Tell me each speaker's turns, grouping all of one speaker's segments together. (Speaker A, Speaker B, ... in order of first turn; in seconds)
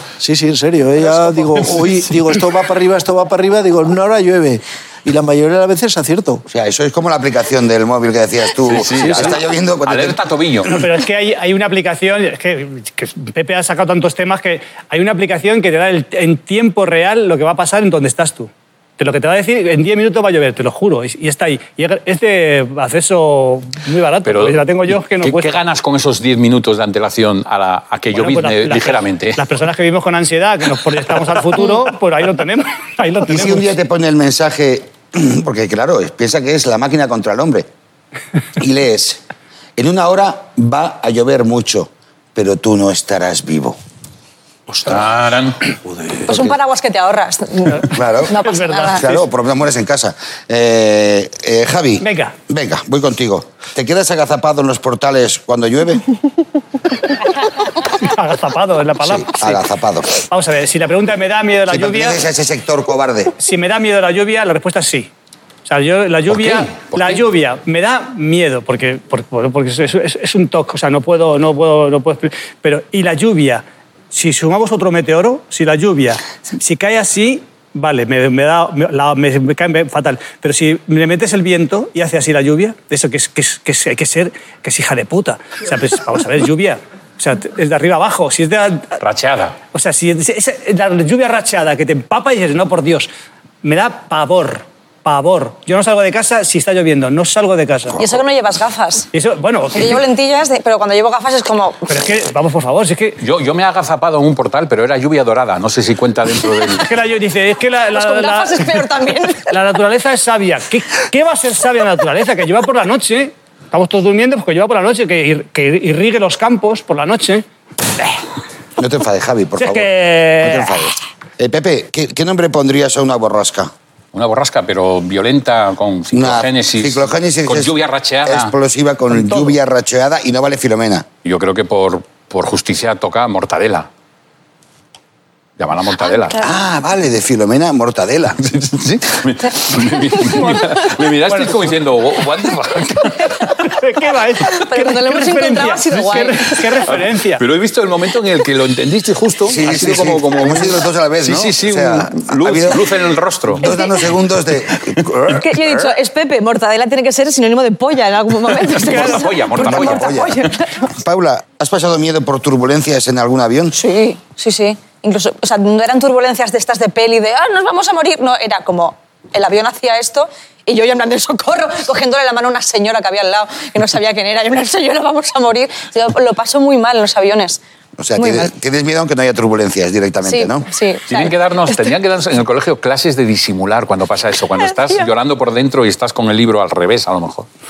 Speaker A: 0.2-6.4, 9.0-9.3
Speaker B: 1.1-1.7, 10.6-25.6, 28.1-33.7, 48.4-49.2, 52.0-52.3, 58.0-59.6, 60.3-62.2, 63.4-65.1, 65.7-89.0, 89.7-93.1, 93.6-98.0, 99.1-100.0, 101.9-103.2, 106.8-108.8, 109.4-117.4, 119.6-120.8, 141.3-141.7, 143.6-147.4
Speaker C: 6.5-10.2, 33.3-37.7, 38.6-39.2, 39.8-43.8, 46.3-46.5, 47.9-56.1, 59.0-60.1, 61.7-63.3, 118.8-123.7, 126.1-131.1, 136.4-138.4, 149.4-152.9, 153.5-155.4, 159.5-163.8, 178.0-180.7
Speaker D: 8.6-10.8, 24.2-29.4, 44.7-45.7, 66.3-67.2, 89.0-89.5, 103.2-106.9, 124.1-128.5, 131.2-133.9, 135.6-136.4, 138.4-143.6, 146.9-153.7, 154.9-155.3, 158.5-160.3, 181.1-187.5
Speaker E: 46.3-49.0, 98.0-99.1, 99.7-101.9, 107.9-109.5, 136.0-136.5, 140.3-140.7, 144.5-146.5, 153.6-153.9, 155.3-160.9, 163.7-177.6, 178.2-178.5, 180.2-181.9